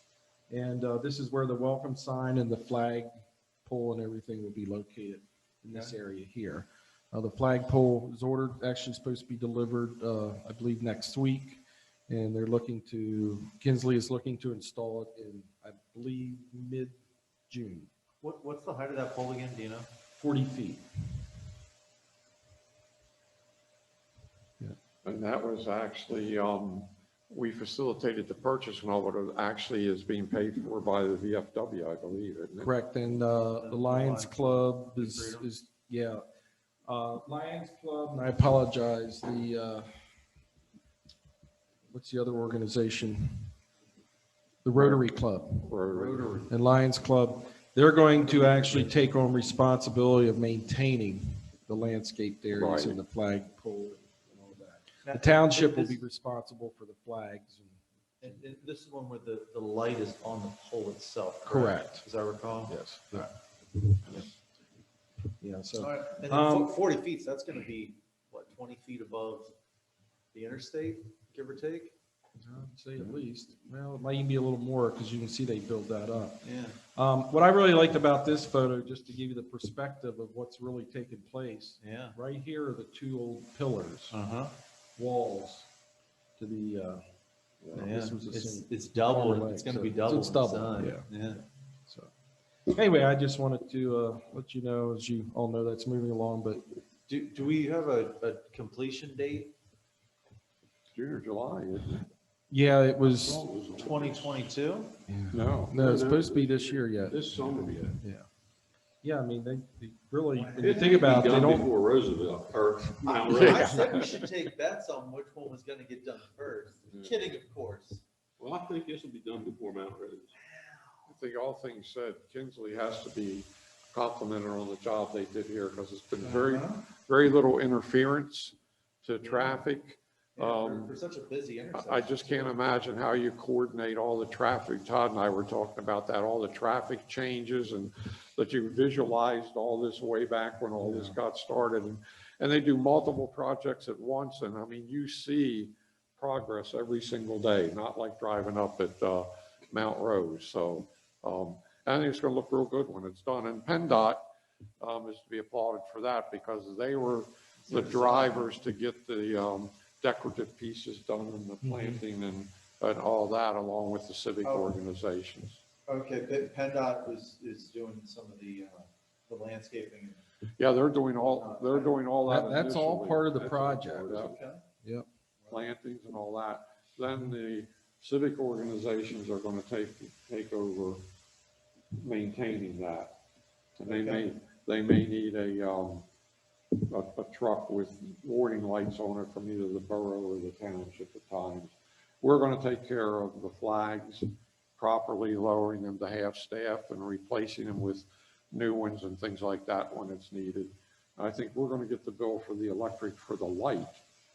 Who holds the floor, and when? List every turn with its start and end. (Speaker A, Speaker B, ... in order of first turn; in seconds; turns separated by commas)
Speaker A: 0.5-3.1, Speaker A: 3.6-17.9, Speaker B: 18.2-19.9, Speaker A: 20.1-20.8, Speaker C: 25.0-32.7, Speaker A: 32.6-36.2, Speaker B: 33.6-35.5, Speaker A: 36.9-39.9, Speaker A: 41.9-43.5, Speaker A: 44.6-45.7, Speaker C: 44.7-46.4, Speaker B: 45.9-46.5, Speaker A: 46.5-57.8, Speaker B: 48.1-49.0, Speaker C: 52.5-53.0, Speaker B: 55.0-56.0, Speaker B: 58.2-62.8, Speaker A: 61.5-62.0, Speaker A: 62.7-63.3, Speaker A: 65.4-66.7, Speaker B: 65.8-69.5, Speaker B: 70.3-71.9, Speaker A: 72.4-84.2, Speaker B: 76.4-76.8, Speaker B: 81.8-82.2, Speaker B: 84.1-84.5, Speaker A: 85.0-85.7, Speaker A: 86.4-87.0, Speaker A: 87.6-91.1, Speaker B: 87.7-91.4, Speaker A: 92.7-96.7, Speaker B: 97.1-99.5, Speaker C: 100.9-102.1, Speaker A: 102.5-103.4, Speaker D: 103.0-104.5, Speaker B: 103.8-105.0, Speaker A: 105.1-107.3, Speaker C: 105.3-105.7, Speaker D: 105.7-108.0, Speaker A: 107.9-108.2, Speaker A: 109.0-111.7, Speaker B: 110.3-111.6, Speaker D: 110.6-113.9, Speaker C: 113.2-114.2, Speaker B: 113.3-118.0, Speaker D: 118.4-120.3, Speaker B: 120.4-121.0, Speaker C: 121.1-130.9, Speaker B: 126.2-126.8, Speaker B: 129.2-129.6, Speaker B: 130.3-132.5, Speaker C: 131.7-154.2, Speaker C: 154.8-165.6, Speaker B: 157.6-158.5, Speaker A: 161.6-162.0, Speaker B: 164.4-164.8, Speaker B: 165.9-170.2, Speaker C: 170.6-174.3, Speaker B: 171.2-172.0, Speaker A: 172.2-174.2, Speaker D: 173.3-174.3, Speaker B: 174.1-174.6, Speaker C: 175.5-181.0, Speaker C: 181.9-183.2, Speaker C: 183.8-186.1, Speaker B: 183.9-184.3, Speaker C: 186.8-204.0